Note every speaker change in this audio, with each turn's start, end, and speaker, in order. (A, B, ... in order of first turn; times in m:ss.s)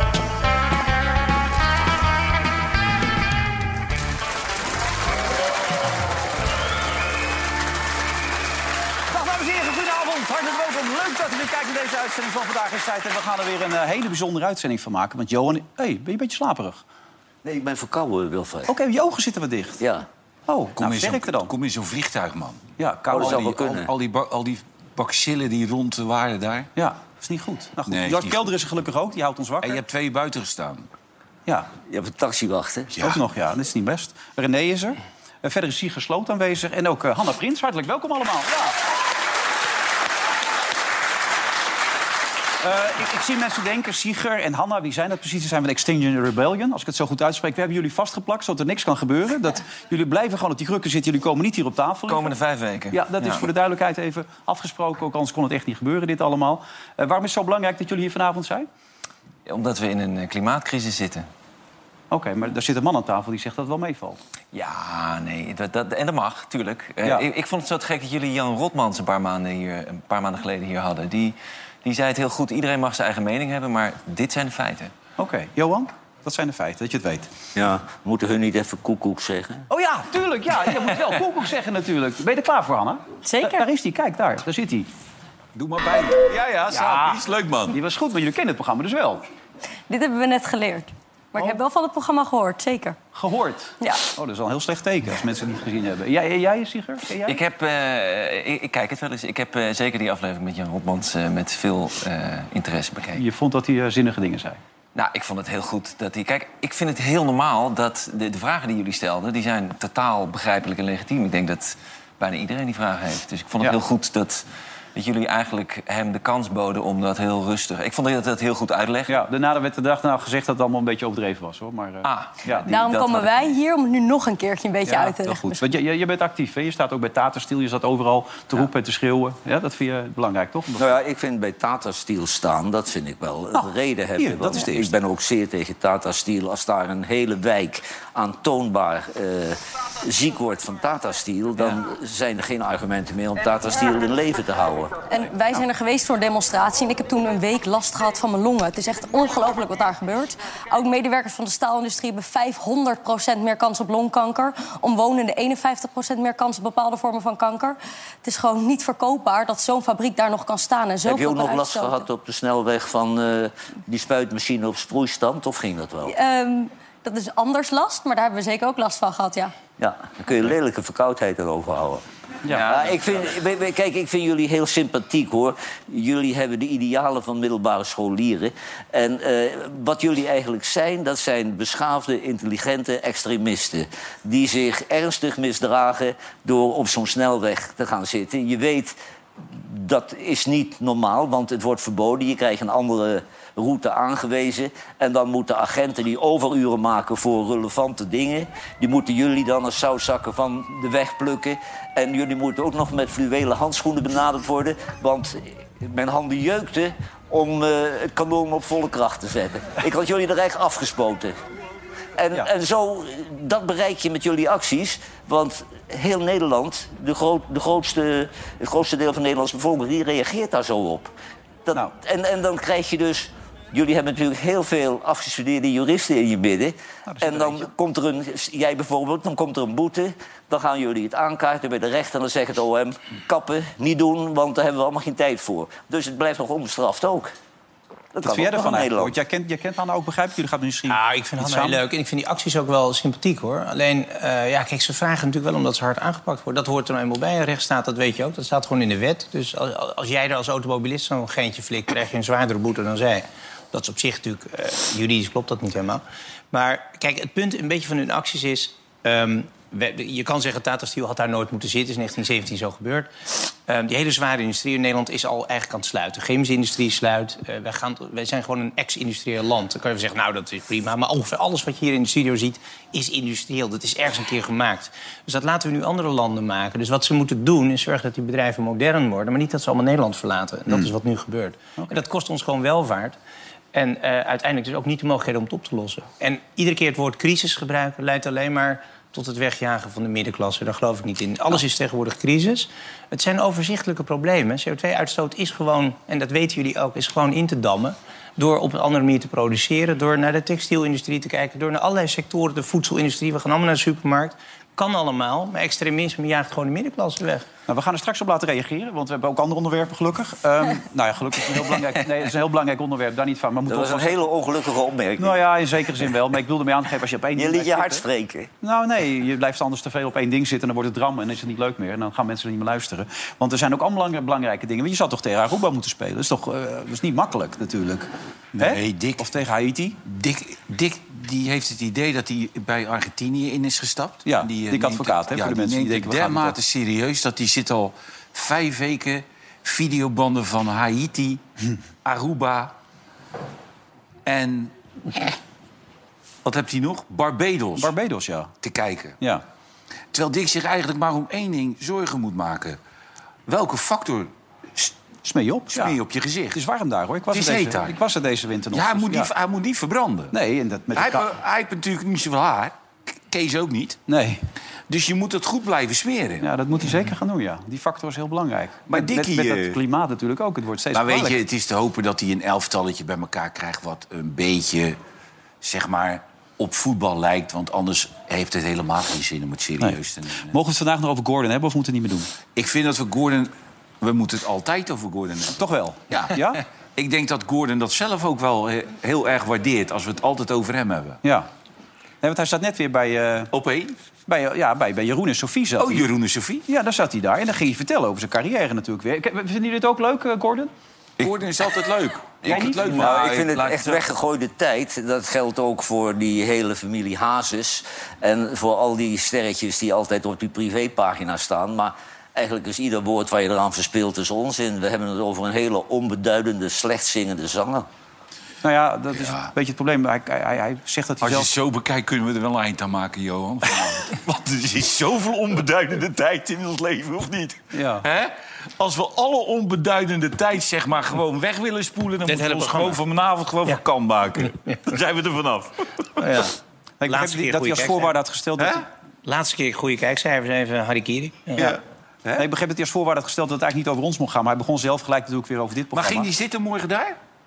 0:09.1-0:16.8 A
0:17.4-0:18.7 B
0:18.7-0:19.8 A
0:19.8-0:20.0 B
0:20.5-0:21.5 A
0:20.8-0:26.7 C
0:22.8-0:23.5 A
0:23.1-0:23.9 B
0:26.8-0:29.8 A
0:27.9-0:28.4 C
0:29.6-0:30.9 C
0:31.9-0:32.9 B
0:32.9-0:33.2 C
0:33.0-0:38.7 A
0:42.6-0:52.4 A
0:52.1-0:53.5 D
0:52.9-0:58.7 A
0:59.4-1:01.3 D
1:02.1-1:04.2 A
1:04.5-1:14.9 D
1:15.2-1:17.3 A
1:17.5-1:19.6 B
1:19.7-1:24.9 A
1:23.2-1:23.6 E
1:25.6-1:26.1 A
1:25.7-1:27.7 C
1:26.7-1:29.2 A
1:29.9-1:33.0 E
1:33.1-1:37.4 A
1:37.2-1:43.2 D
1:43.2-1:44.6 A
1:44.9-1:59.2 D
1:59.1-2:02.7 A
2:02.0-2:03.6 D
2:02.6-2:05.6 E
2:04.8-2:10.8 A
2:10.8-2:25.0 B
2:13.6-2:14.9 A
2:25.1-2:42.0 E
2:41.0-2:46.1 B
2:46.0-2:49.5 E
2:49.8-2:52.0 B
2:52.5-2:52.7 A
2:52.5-2:53.2 D
2:52.6-3:31.4 B
3:32.2-3:41.1 B
3:41.6-3:57.3 B
3:47.0-3:47.6 A
3:58.1-3:59.1 B
3:58.2-4:01.8 A
4:00.9-4:23.1 F
4:23.7-4:43.2 F
4:43.7-5:07.5 F
5:07.7-5:14.2 A
5:13.7-5:15.4 B
5:15.2-5:18.0 A
5:17.4-5:18.5 B
5:18.6-5:30.0 A
5:28.6-5:29.3 C
5:30.0-5:41.4 C
5:34.2-5:36.6 A
5:42.0-5:42.7 C
5:44.2-5:44.7 C
5:46.4-5:47.9 C
5:47.8-5:48.5 A
5:48.6-5:49.2 C
5:50.1-5:52.8 C
5:53.5-5:54.9 C
5:55.2-5:56.0 A
5:55.7-5:56.6 C
5:56.5-5:59.3 A
5:57.3-5:58.0 C
5:58.7-6:00.3 C
6:00.3-6:01.3 A
6:00.9-6:02.7 C
6:03.3-6:04.0 C
6:04.1-6:04.4 A
6:04.9-6:06.5 C
6:06.4-6:11.4 A
6:08.9-6:09.8 C
6:10.9-6:15.0 C
6:15.6-6:20.5 C
6:20.5-6:22.3 A
6:22.5-6:25.6 C
6:25.6-6:26.6 A
6:26.1-6:31.2 C
6:31.2-6:31.5 A
6:32.2-6:33.5 A
6:33.5-6:33.9 C
6:34.2-6:36.1 A
6:35.8-6:36.6 C
6:36.7-6:40.7 A
6:41.2-6:44.0 C
6:42.4-6:43.3 A
6:42.9-6:57.9 B
6:58.6-7:01.5 A
6:59.2-6:59.5 C
7:01.2-7:16.4 C
7:03.7-7:04.0 A
7:07.7-7:08.0 A
7:12.2-7:13.0 F
7:16.2-7:16.5 F
7:17.0-7:18.8 A
7:17.0-7:18.1 F
7:18.6-7:18.8 C
7:19.2-7:21.8 F
7:21.6-7:22.5 C
7:22.4-7:26.3 A
7:25.9-7:27.2 C